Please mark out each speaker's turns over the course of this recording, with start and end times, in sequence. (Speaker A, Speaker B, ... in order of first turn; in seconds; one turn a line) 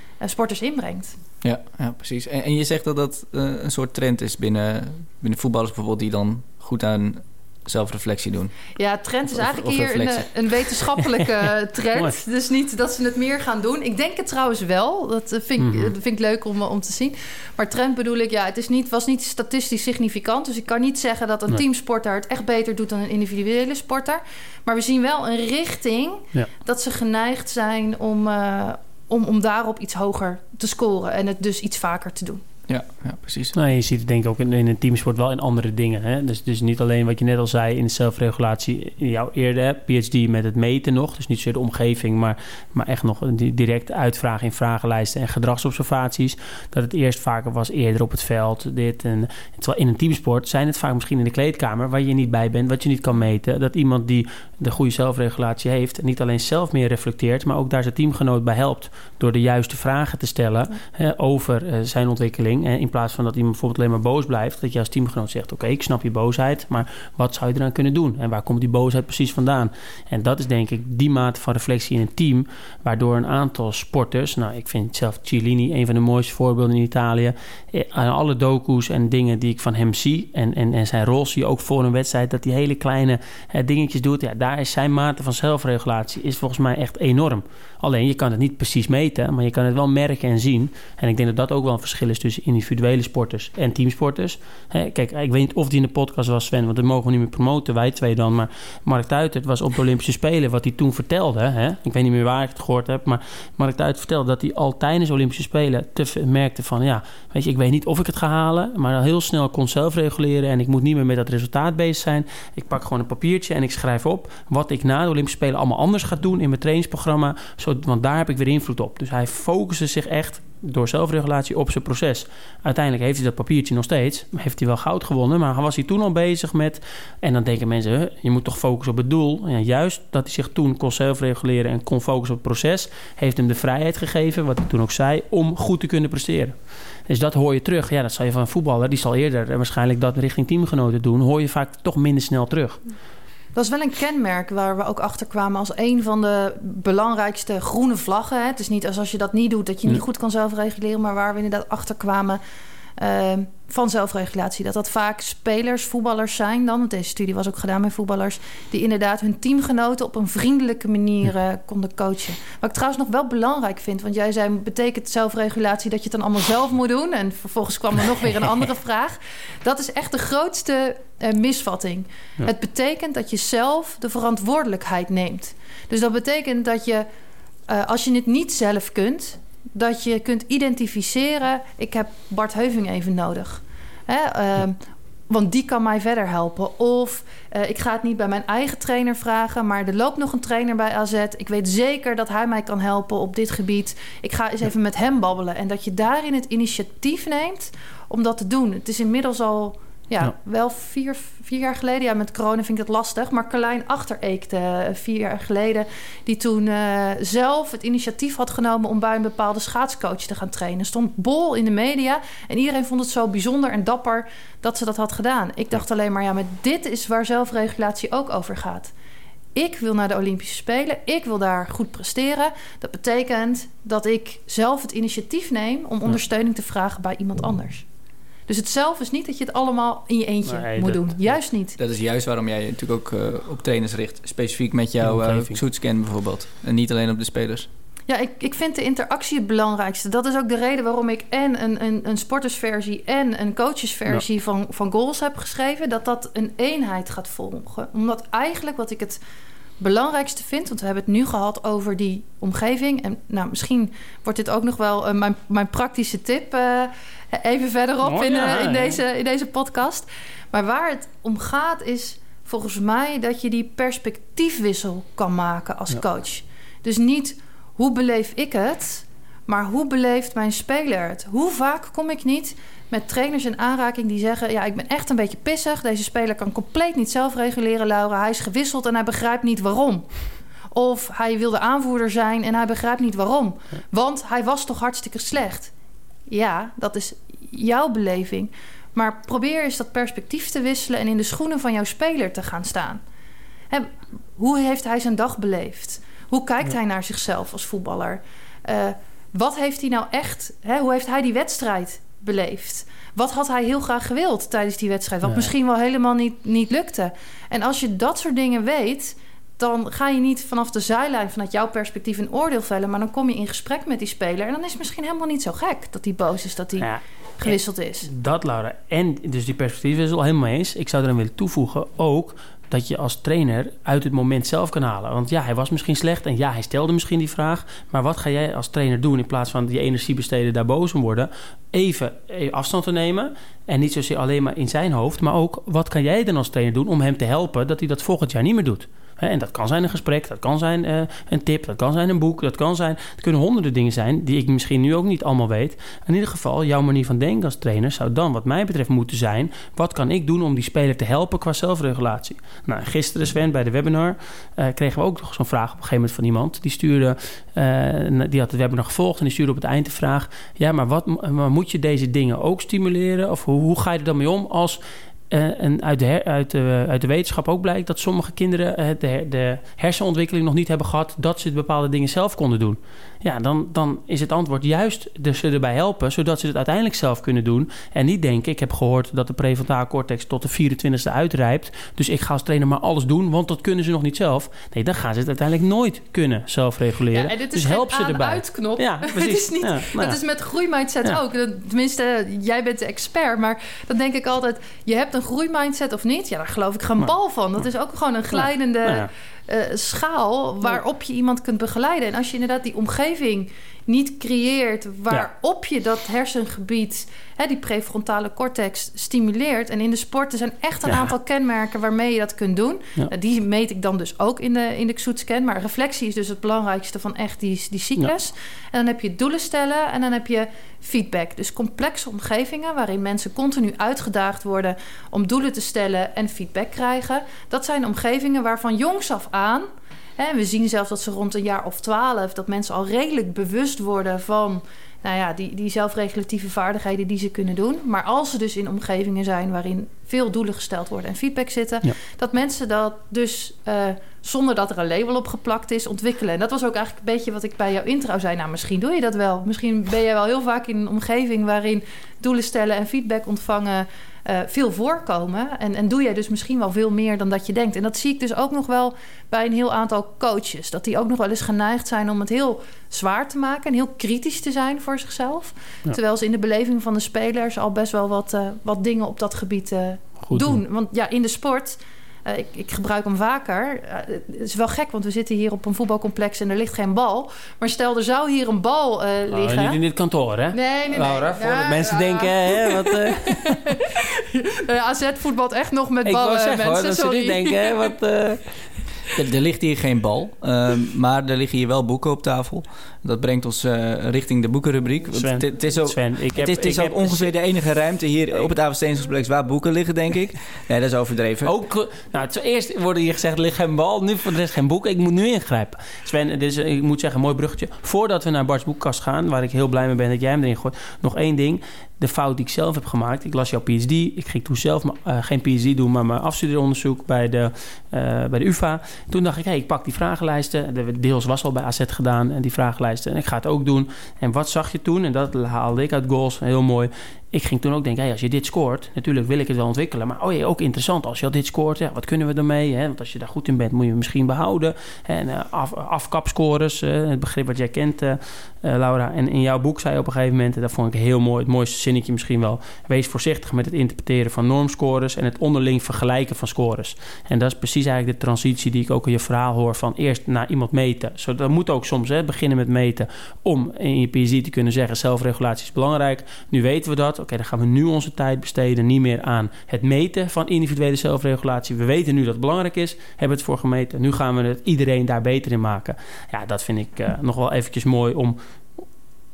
Speaker A: 0.2-1.2
Speaker B: 1.4-8.6
Speaker A: 8.8-32.5
Speaker B: 9.3-10.3
Speaker C: 15.6-15.9
Speaker B: 32.7-33.6
Speaker C: 33.5-136.6
Speaker C: 137.1-142.8
Speaker A: 143.6-152.4
Speaker A: 153.0-177.1
Speaker A: 177.7-218.9
Speaker A: 219.6-227.9
Speaker A: 228.5-231.8
Speaker C: 230.5-231.2
Speaker B: 231.8-237.7
Speaker C: 235.0-235.6
Speaker A: 238.1-249.2
Speaker A: 249.8-280.1
Speaker C: 258.1-259.0
Speaker A: 280.7-285.7
Speaker A: 286.3-293.0
Speaker A: 293.7-316.9
Speaker C: 316.8-390.2
Speaker A: 317.4-318.1
Speaker A: 387.1-429.7
Speaker C: 398.4-399.1
Speaker A: 430.2-479.8
Speaker C: 470.3-470.6
Speaker C: 479.3-483.8
Speaker A: 480.5-487.9
Speaker C: 486.1-488.5
Speaker B: 489.1-501.5
Speaker C: 495.1-497.3
Speaker C: 501.4-568.4